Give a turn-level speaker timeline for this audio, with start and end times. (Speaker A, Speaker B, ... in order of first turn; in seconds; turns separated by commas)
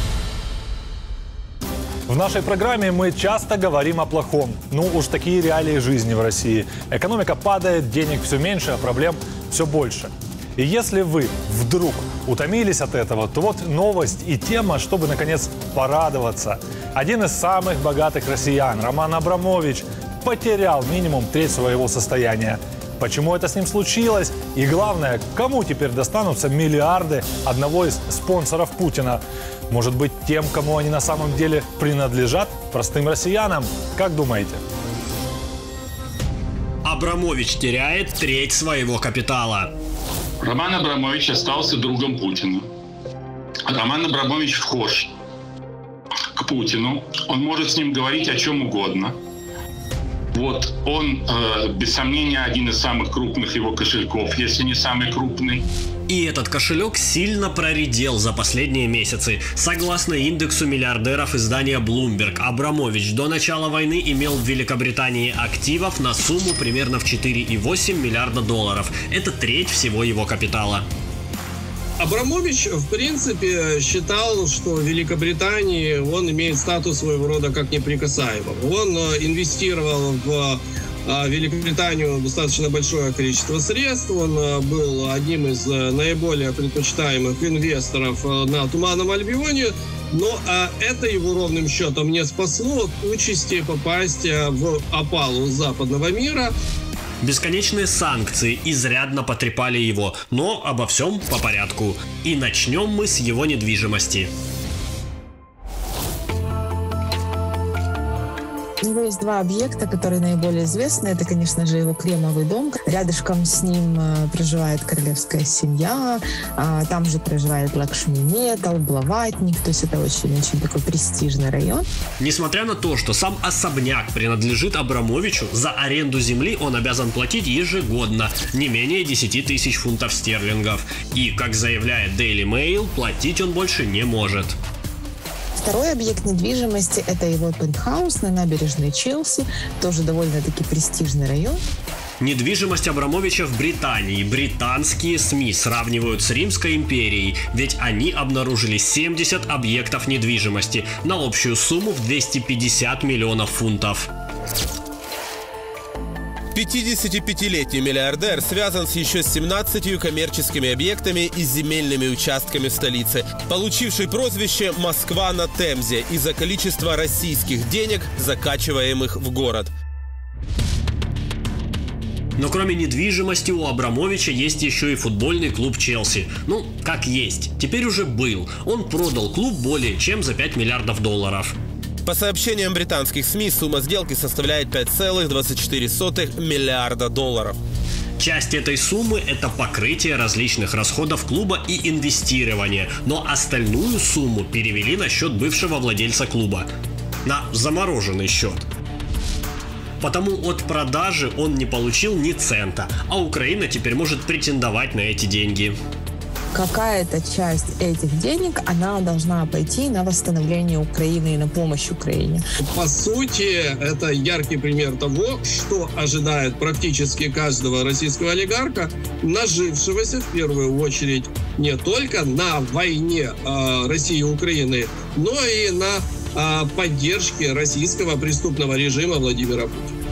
Speaker A: 2.1-34.6, Speaker B: 36.8-39.7, Speaker C: 40.4-42.7, Speaker C: 43.7-45.1, Speaker C: 46.4-49.1, Speaker C: 50.3-55.6, Speaker B: 56.1-70.8, Speaker D: 72.0-96.5, Speaker B: 97.2-104.3, Speaker E: 108.8-121.8, Speaker B: 122.2-134.6, Speaker E: 135.6-141.6, Speaker B: 142.2-154.1, Speaker F: 156.5-169.7, Speaker B: 172.4-181.5, Speaker F: 182.0-187.6, Speaker B: 188.2-196.7, Speaker B: 197.2-198.7, Speaker B: 200.0-205.8, Speaker E: 206.5-212.4, Speaker D: 212.6-229.9